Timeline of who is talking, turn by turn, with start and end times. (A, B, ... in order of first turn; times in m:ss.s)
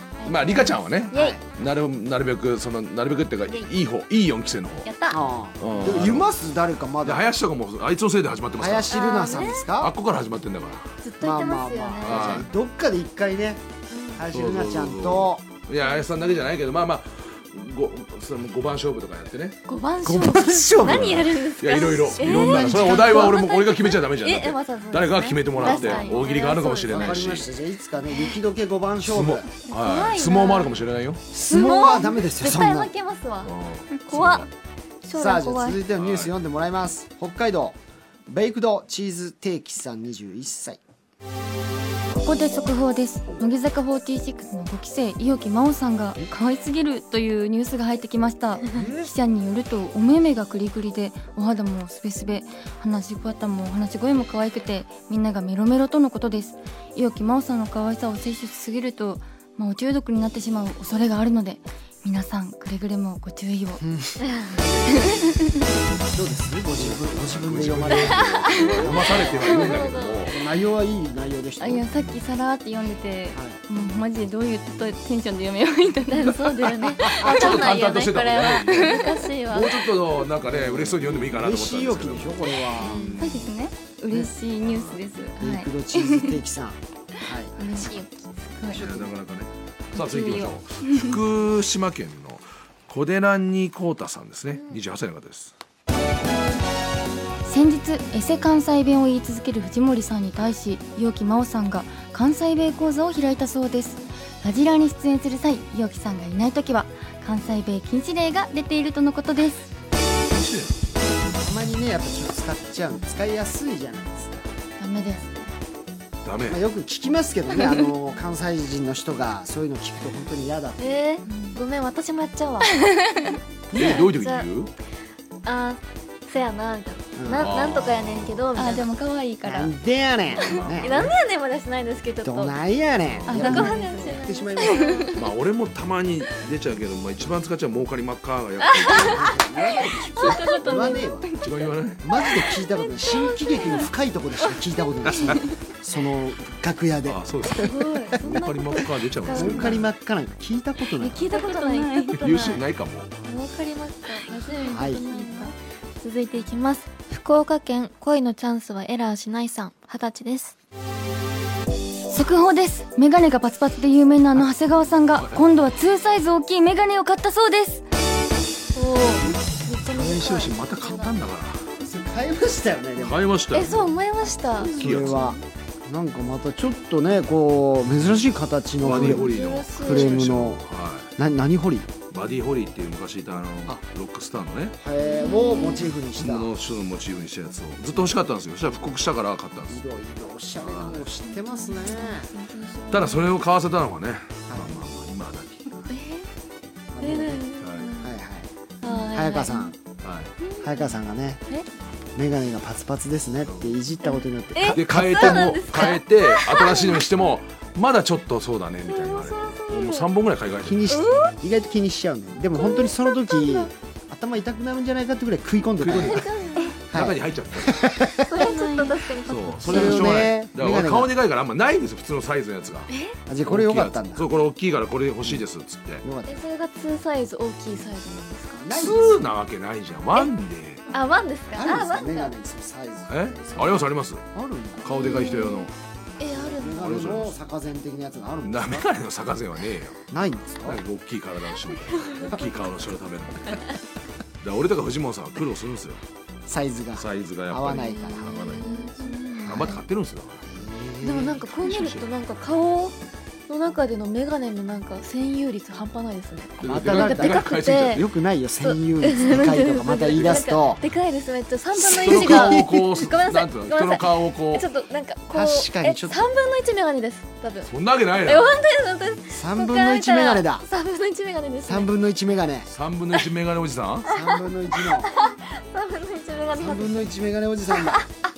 0:00.2-0:01.4 A
0:00.2-0:04.9 B
0:01.1-0:01.4 C
0:04.8-0:05.2 A
0:05.1-0:07.3 C
0:05.6-0:06.3 B
0:07.0-0:09.0 B
0:08.6-0:09.9 C
0:08.9-0:09.6 A
0:09.8-0:11.0 B
0:11.0-0:12.4 A
0:11.2-0:15.4 C
0:12.0-0:12.5 B
0:13.9-0:14.2 A
0:14.3-0:27.5 B
0:15.9-0:16.2 A
0:19.7-0:27.1 A
0:20.0-0:21.2 C
0:22.1-0:23.2 C
0:25.5-0:26.3 C
0:26.8-0:29.5 C
0:29.0-0:31.2 B
0:29.7-0:30.8 A
0:31.3-0:32.9 C
0:31.4-0:33.5 A
0:33.4-0:34.5 B
0:34.1-0:34.5 A
0:35.0-0:35.8 D
0:35.1-0:37.8 C
0:36.0-0:36.3 B
0:38.3-0:40.8 C
0:42.1-1:03.8 E
1:03.8-1:04.2 C
1:04.5-1:05.4 B
1:04.9-1:05.5 E
1:06.1-1:11.8 C
1:06.7-1:10.4 B
1:08.9-1:10.3 A
1:11.6-1:17.3 E
1:13.3-1:13.6 C
1:16.1-1:19.9 A
1:17.1-1:23.5 B
1:18.7-1:19.0 E
1:20.4-1:23.2 C
1:22.8-1:23.2 A
1:23.2-1:26.4 E
1:24.6-1:25.0 B
1:25.4-1:27.6 C
1:27.6-1:28.8 E
1:27.8-1:28.1 A
1:28.7-1:29.1 C
1:28.7-1:35.5 B
1:29.9-1:31.1 E
1:37.4-1:49.7 E
1:50.3-1:50.9 B
1:51.4-1:54.4 C
1:54.8-1:55.5 E
1:56.2-1:56.6 B
1:56.5-2:01.1 C
2:00.8-2:02.7 A
2:01.2-2:01.6 E
2:02.7-2:03.4 E
2:03.7-2:04.7 B
2:03.7-2:04.4 A
2:05.4-2:08.9 A
2:07.2-2:07.6 C
2:07.3-2:08.5 B
2:08.5-2:09.7 E
2:09.4-2:11.1 C
2:10.3-2:11.2 B
2:10.8-2:12.6 A
2:12.2-2:15.0 C
2:13.1-2:13.5 B
2:13.3-2:15.1 E
2:13.3-2:15.2 A
2:15.1-2:19.4 B
2:18.7-2:19.4 A
2:18.9-2:21.3 C
2:20.0-2:21.0 A
2:20.1-2:21.5 E
2:21.4-2:22.1 B
2:22.0-2:28.4 C
2:23.2-2:23.8 A
2:25.0-2:25.4 B
2:27.0-2:29.9 B
2:27.6-2:29.8 A
2:29.3-2:31.3 C
2:31.0-2:32.6 A
2:31.0-2:32.6 E
2:32.1-2:33.1 B
2:33.2-2:35.6 A
2:34.6-2:35.1 C
2:35.0-2:35.5 E
2:36.0-2:40.5 D
2:42.1-2:47.8 E
2:45.2-2:45.4 B
2:48.7-2:51.2 A
2:49.9-2:51.7 B
2:51.8-2:53.2 C
2:53.0-2:53.9 B
2:53.5-2:55.4 A
2:54.6-2:55.3 B
2:54.7-3:00.6 C
2:58.8-3:01.1 B
2:59.0-3:00.3 A
3:01.2-3:02.0 C
3:02.1-3:04.8 B
3:04.8-3:06.5 C
3:05.0-3:05.9 A
3:06.1-3:09.8 B
3:09.7-3:12.3 C
3:10.6-3:11.1 B
3:11.4-3:13.4 A
3:12.9-3:15.9 B
3:14.5-3:14.8 C
3:15.9-3:16.3 A
3:16.9-3:18.5 C
3:17.0-3:18.1 A
3:17.6-3:17.9 B
3:18.8-3:19.7 A
3:19.0-3:19.8 C
3:20.0-3:20.3 B
3:20.4-3:21.0 A
3:20.6-3:21.4 C
3:22.2-3:25.5 C
3:23.4-3:23.8 B
3:24.5-3:27.1 A
3:24.7-3:30.9 B
3:28.8-3:30.1 A
3:30.6-3:36.3 C
3:30.9-3:31.4 A
3:32.5-3:33.7 A
3:35.8-3:36.3 B
3:36.0-3:36.8 A
3:36.9-3:38.4 C
3:36.9-3:38.0 B
3:38.2-3:40.2 A
3:38.3-3:39.0 D
3:39.2-3:42.9 B
3:39.6-3:41.1 C
3:42.9-3:43.2 A
3:43.3-3:44.3 C
3:43.4-3:46.0 B
3:46.0-3:46.4 C
3:46.2-3:48.8 A
3:48.6-3:49.3 C
3:48.7-3:50.8 B
3:50.9-3:52.3 A
3:51.5-3:55.2 C
3:53.1-3:54.2 B
3:54.8-3:55.7 B
3:54.9-3:57.1 A
3:56.3-3:58.9 C
3:56.8-3:57.4 B
3:58.4-4:00.0 B
4:00.1-4:00.8 C
4:00.6-4:03.7 B
4:02.0-4:02.4 A
4:04.4-4:06.0 B
4:06.5-4:08.6 C
4:07.0-4:08.9 B
4:07.7-4:09.8 A
4:09.4-4:10.5 B
4:10.5-4:11.5 C
4:11.0-4:13.0 A
4:11.4-4:12.1 B
4:13.5-4:18.0 A
4:16.6-4:18.0 B
4:16.6-4:20.8 C
4:18.6-4:27.7 A
4:20.1-4:20.6 B
4:21.7-4:24.7 B
4:21.9-4:23.1 C
4:25.3-4:26.3 C
4:27.6-4:28.6 B
4:28.2-4:31.9 A
4:29.3-4:30.7 C
4:31.6-4:32.7 C
4:32.7-4:34.1 B
4:34.1-4:35.1 C
4:34.2-4:37.1 A
4:36.5-4:38.0 C
4:37.7-4:38.1 A